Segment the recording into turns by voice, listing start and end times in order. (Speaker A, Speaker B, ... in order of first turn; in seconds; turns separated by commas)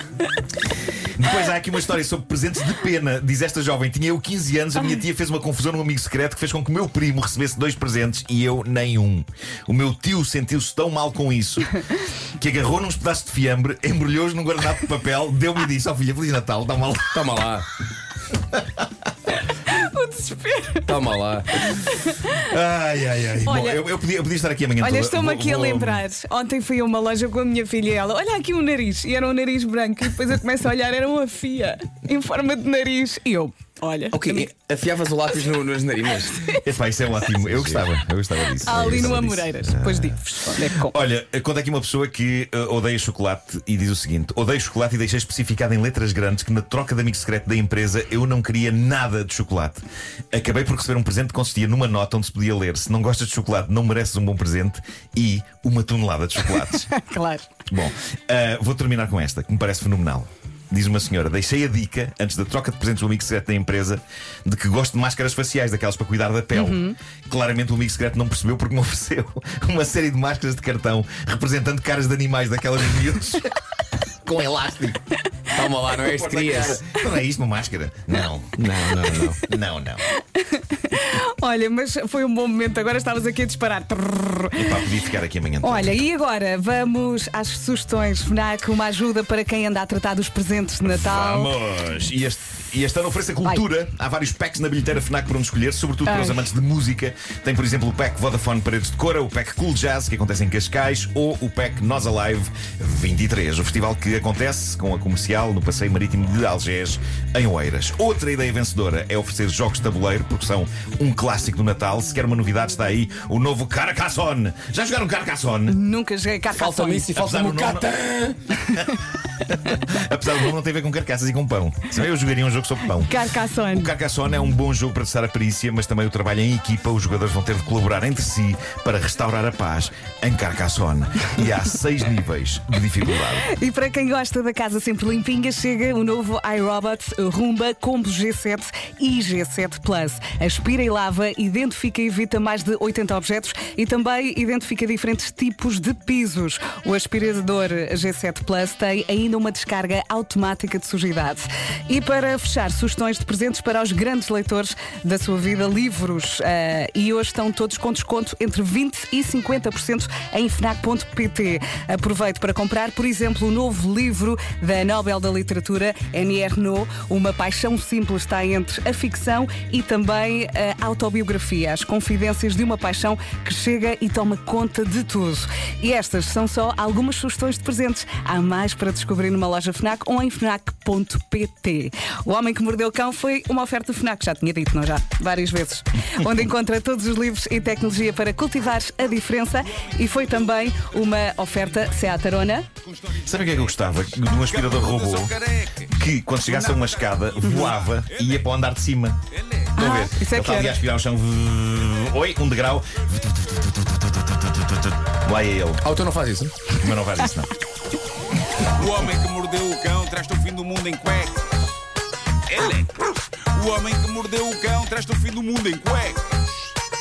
Speaker A: 1.2-11.8, Speaker A: 12.4-17.4, Speaker B: 17.1-17.6, Speaker A: 18.6-18.8, Speaker C: 19.6-20.9, Speaker B: 20.9-21.5, Speaker C: 21.6-22.3, Speaker A: 22.3-26.1, Speaker C: 23.4-23.9, Speaker C: 24.8-34.5, Speaker B: 34.1-36.4, Speaker C: 36.3-36.6, Speaker A: 36.5-56.9, Speaker B: 37.4-37.9, Speaker C: 38.6-41.0, Speaker B: 38.7-39.4, Speaker C: 56.9-57.5, Speaker A: 57.7-73.5, Speaker C: 66.5-67.0, Speaker A: 74.2-75.0, Speaker B: 75.5-76.8, Speaker A: 75.9-78.7, Speaker B: 78.6-79.5, Speaker A: 79.3-80.0, Speaker C: 80.2-84.8, Speaker A: 84.5-86.0, Speaker C: 85.6-91.5, Speaker A: 90.9-115.8, Speaker C: 96.0-96.5, Speaker C: 115.7-117.1, Speaker B: 116.5-118.5, Speaker A: 117.1-117.9, Speaker A: 119.5-133.5, Speaker C: 123.0-123.9, Speaker C: 133.4-192.7, Speaker A: 193.1-199.2, Speaker D: 194.5-195.9, Speaker C: 199.8-200.8, Speaker A: 199.8-205.8, Speaker B: 205.8-206.7, Speaker A: 206.8-207.5, Speaker D: 208.7-211.6, Speaker D: 212.5-216.5